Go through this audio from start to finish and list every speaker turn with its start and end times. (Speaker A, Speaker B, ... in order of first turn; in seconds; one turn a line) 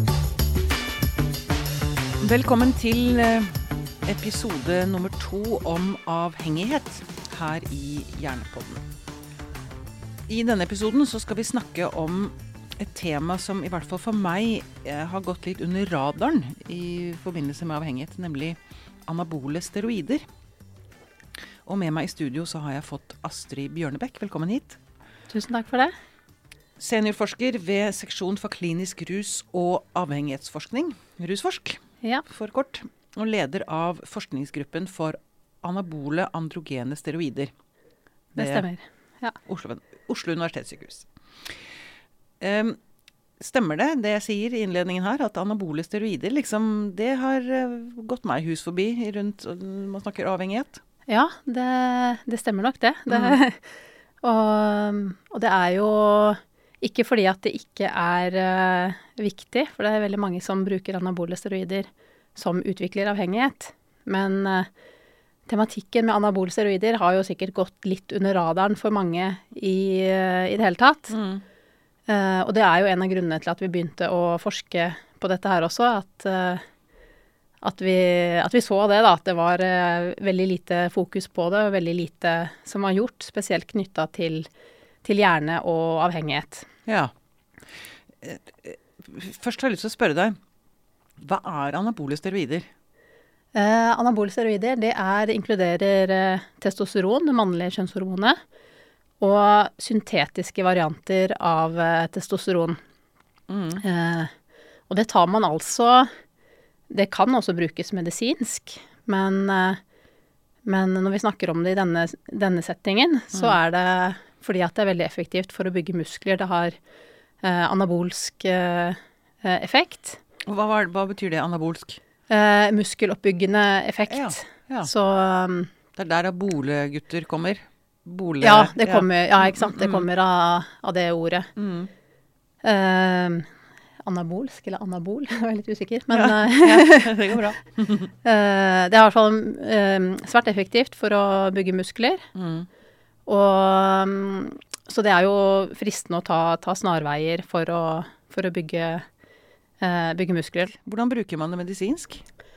Speaker A: 2.2-8.8
Speaker A: 10.3-20.2
Speaker A: 21.6-24.8
Speaker B: 25.3-25.9
Speaker A: 26.8-37.5
Speaker A: 38.3-38.6
Speaker B: 38.4-39.4
Speaker A: 39.4-41.6
Speaker A: 42.4-42.8
Speaker A: 43.4-50.8
Speaker B: 51.1-64.7
Speaker A: 53.1-53.4
Speaker B: 65.5-71.1
Speaker A: 71.1-71.4
Speaker B: 72.1-76.6
Speaker B: 77.6-84.5
Speaker B: 85.0-86.7
Speaker A: 86.8-87.1
Speaker A: 87.6-90.4
Speaker A: 91.2-92.7
Speaker B: 93.5-98.4
Speaker B: 99.2-102.8
Speaker A: 103.5-103.8
Speaker B: 103.8-104.3
Speaker B: 104.9-106.1
Speaker B: 106.9-109.8
Speaker B: 110.6-116.8
Speaker B: 117.4-120.2
Speaker A: 120.4-122.0
Speaker B: 122.3-125.7
Speaker A: 124.1-124.9
Speaker A: 125.9-130.1
Speaker B: 128.4-131.5
Speaker A: 131.6-131.9
Speaker B: 132.6-133.5
Speaker B: 134.0-137.3
Speaker A: 136.1-138.1
Speaker B: 138.2-142.3
Speaker A: 142.3-142.7
Speaker B: 143.3-149.0
Speaker B: 149.8-150.7
Speaker A: 150.8-152.2